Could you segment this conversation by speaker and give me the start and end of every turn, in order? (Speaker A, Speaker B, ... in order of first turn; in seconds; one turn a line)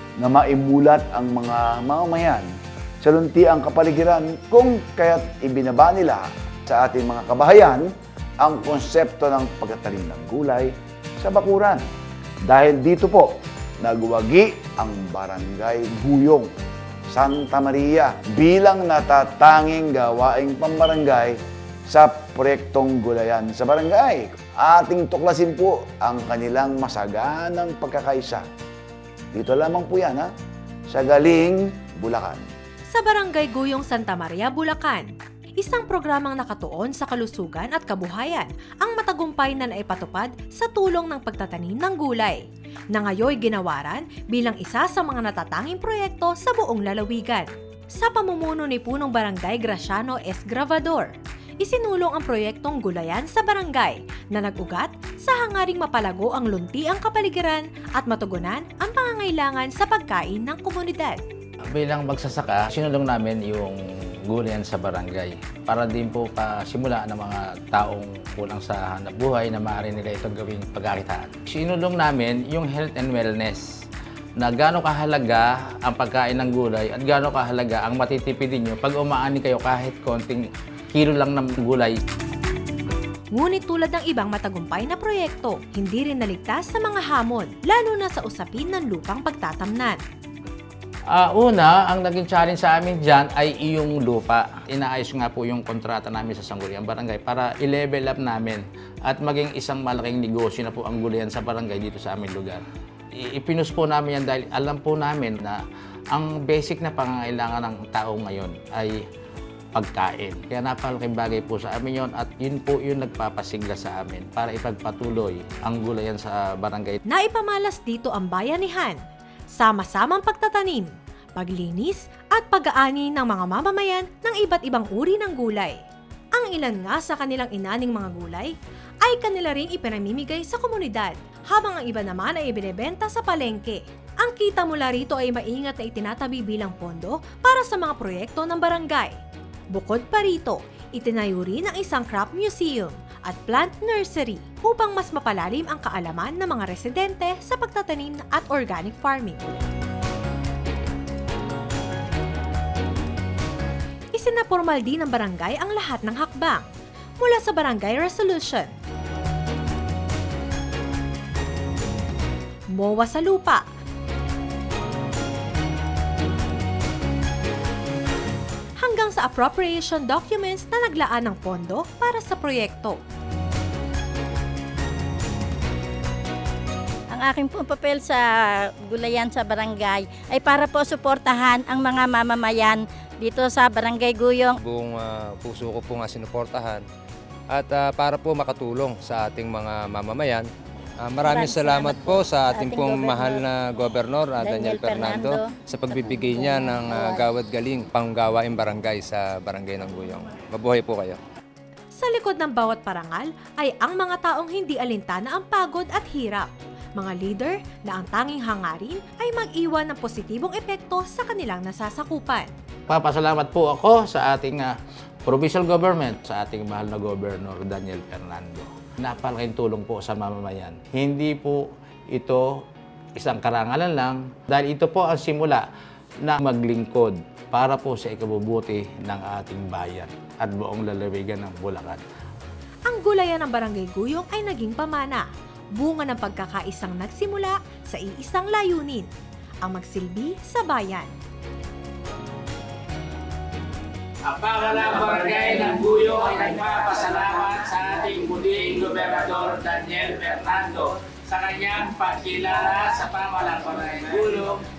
Speaker A: 0.2-2.5
Speaker A: 3.0-11.8
Speaker A: 12.4-16.5
Speaker A: 17.1-28.4
Speaker A: 29.3-30.3
Speaker A: 30.9-32.5
Speaker B: 32.9-35.1
Speaker B: 35.6-61.2
Speaker C: 61.7-73.7
Speaker C: 74.4-82.0
Speaker B: 83.3-90.0
Speaker C: 91.1-105.6
Speaker C: 106.1-109.0
Speaker C: 109.7-117.0
Speaker B: 117.1-119.0
Speaker B: 119.5-125.8
Speaker B: 126.3-139.2
Speaker B: 139.7-149.4
Speaker B: 154.1-156.6
Speaker B: 157.2-158.7
Speaker B: 162.7-163.7
Speaker B: 168.8-173.0
Speaker D: 177.1-178.3
Speaker D: 178.9-184.6
Speaker E: 184.6-186.8
Speaker E: 187.5-190.5
Speaker E: 191.0-201.2
Speaker D: 191.2-193.5
Speaker D: 194.4-197.2
Speaker B: 202.0-212.5
Speaker C: 212.9-214.7
Speaker C: 215.2-222.7
Speaker C: 223.2-225.7
Speaker C: 226.2-232.0
Speaker B: 232.9-239.1
Speaker B: 239.6-241.1
Speaker F: 244.4-254.4
Speaker C: 246.8-247.3